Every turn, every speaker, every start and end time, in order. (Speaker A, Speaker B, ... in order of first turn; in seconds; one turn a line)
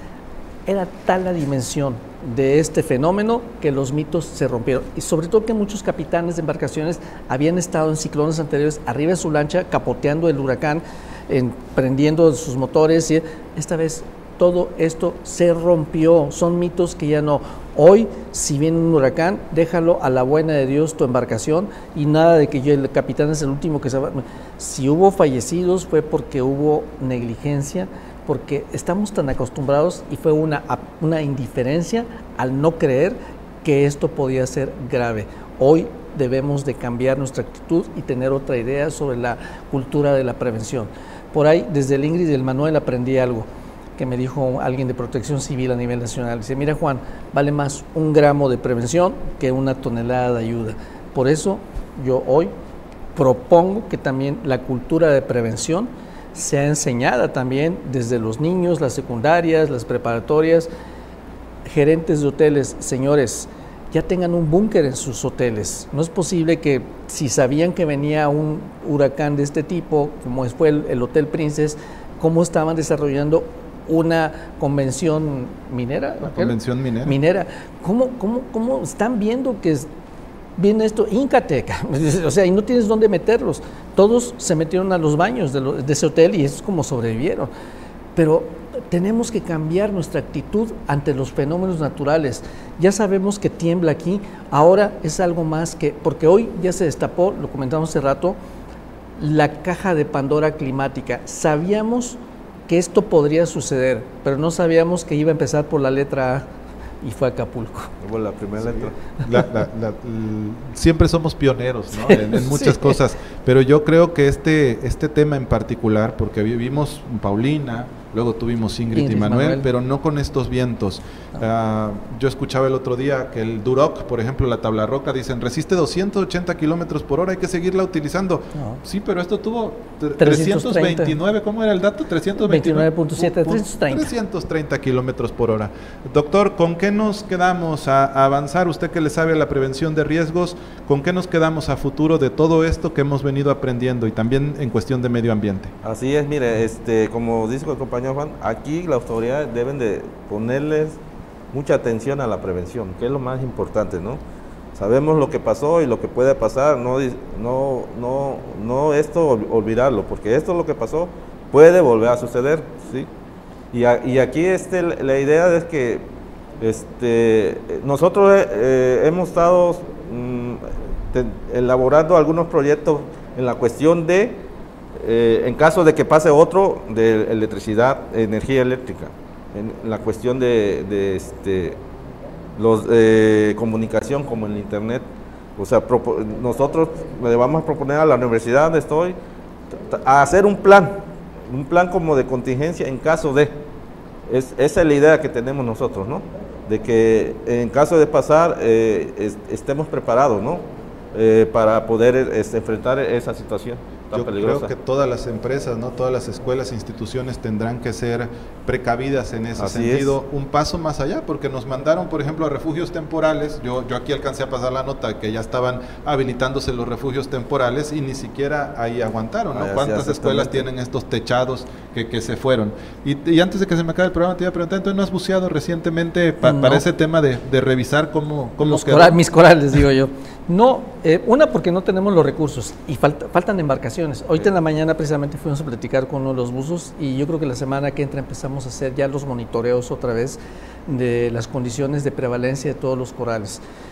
Speaker A: 0.7-52.5
Speaker A: 53.1-60.7
Speaker A: 61.6-79.9
Speaker B: 76.2-77.2
Speaker A: 80.6-87.5
Speaker A: 88.2-98.4
Speaker A: 99.2-106.5
Speaker A: 107.0-107.9
Speaker C: 108.0-108.9
Speaker B: 108.6-145.7
Speaker A: 112.1-112.9
Speaker A: 118.9-119.7
Speaker A: 128.5-128.8
Speaker A: 130.2-131.2
Speaker A: 132.4-134.1
Speaker C: 145.8-151.0
Speaker C: 151.5-154.2
Speaker C: 154.7-163.1
Speaker C: 163.7-166.1
Speaker C: 166.6-174.4
Speaker C: 174.9-181.8
Speaker C: 182.6-185.1
Speaker C: 185.6-189.2
Speaker C: 189.7-193.6
Speaker C: 194.3-204.7
Speaker B: 204.1-229.2
Speaker C: 209.6-210.1
Speaker C: 219.5-220.7
Speaker A: 226.4-226.8
Speaker A: 228.6-243.6